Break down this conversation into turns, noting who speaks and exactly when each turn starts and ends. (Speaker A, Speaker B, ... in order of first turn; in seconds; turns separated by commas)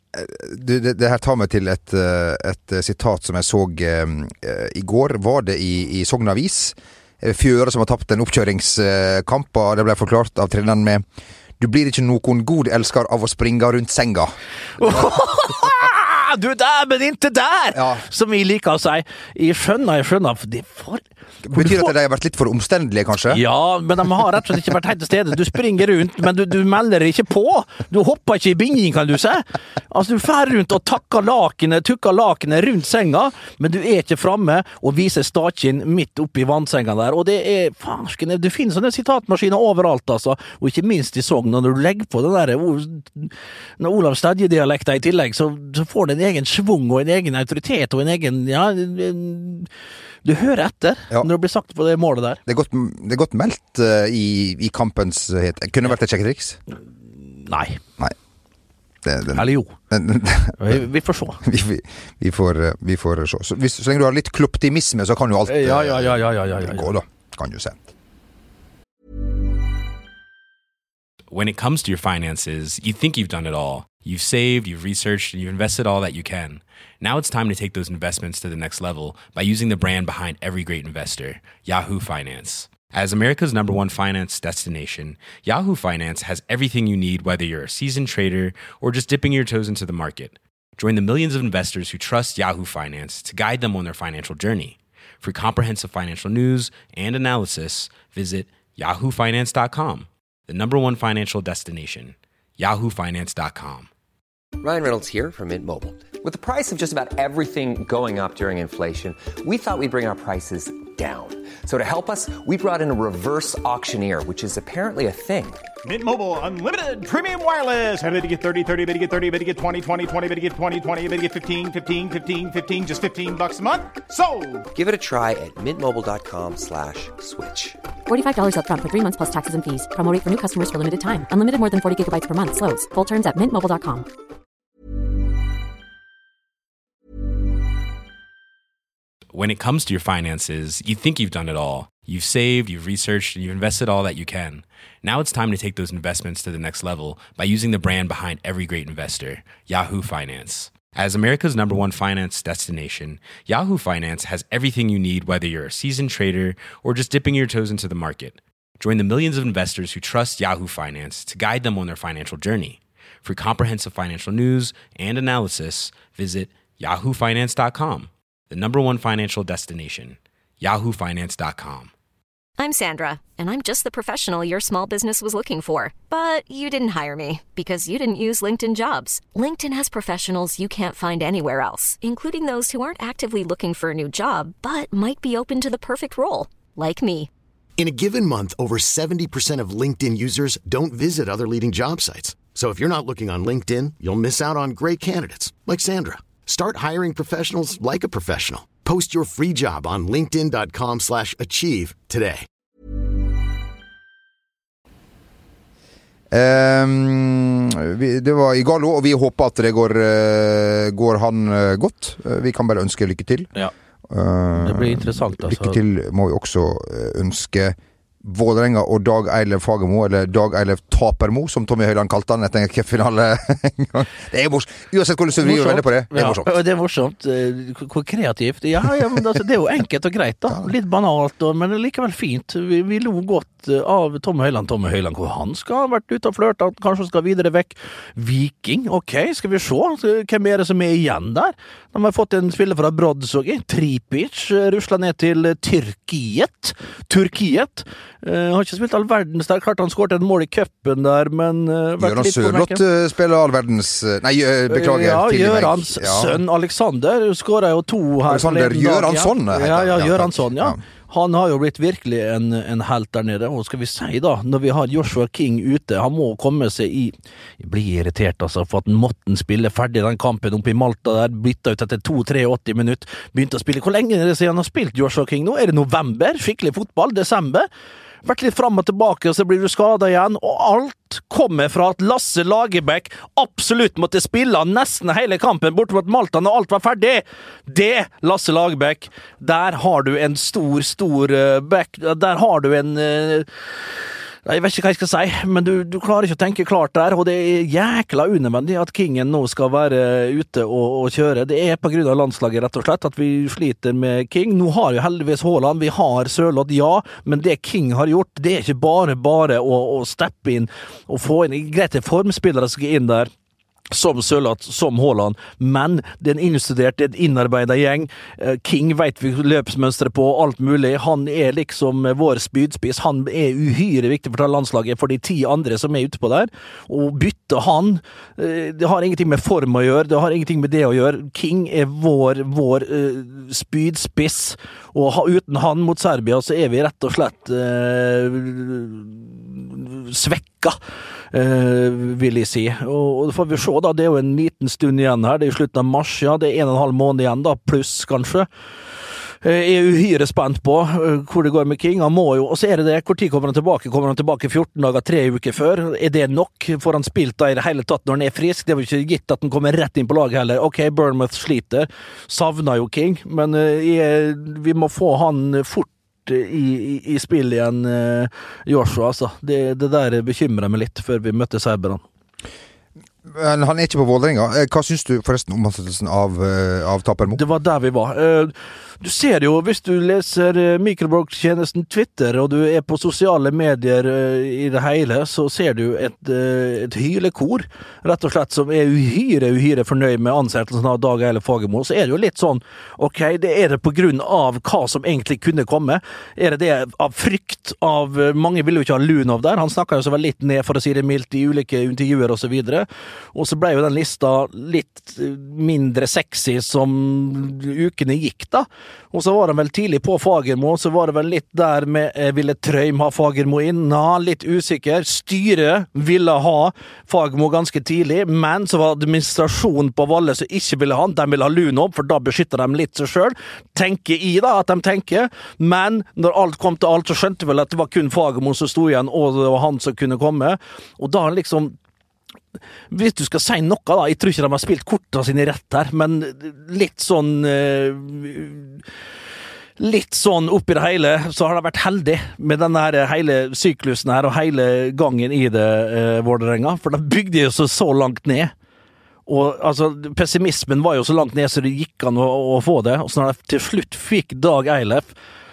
Speaker A: 0.1-11.1, Speaker A: 11.6-14.3, Speaker B: 14.8-21.9, Speaker A: 17.8-18.0, Speaker A: 21.4-23.4, Speaker B: 23.3-49.7, Speaker B: 50.2-52.4, Speaker A: 52.5-56.6, Speaker B: 57.2-57.8, Speaker A: 59.0-60.8, Speaker B: 59.3-59.7, Speaker B: 60.6-61.4, Speaker A: 61.4-67.8, Speaker B: 65.5-66.9, Speaker C: 71.3-103.9, Speaker D: 104.6-115.6, Speaker E: 115.8-124.7, Speaker D: 124.7-127.8, Speaker F: 128.1-134.1, Speaker C: 139.3-171.9, Speaker G: 172.6-187.3, Speaker H: 187.8-202.4, Speaker A: 206.3-213.5, Speaker A: 214.1-226.6, Speaker B: 214.6-215.8, Speaker B: 225.4-252.8, Speaker A: 252.0-256.4, Speaker B: 254.7-277.7, Speaker A: 258.3-260.8, Speaker B: 278.2-293.5, Speaker B: 294.4-313.3, Speaker B: 313.9-340.8, Speaker B: 341.3-348.5, Speaker B: 349.4-372.0, Speaker A: 373.3-377.4, Speaker B: 377.3-431.8, Speaker B: 432.9-438.8, Speaker B: 439.8-448.5, Speaker B: 449.3-455.1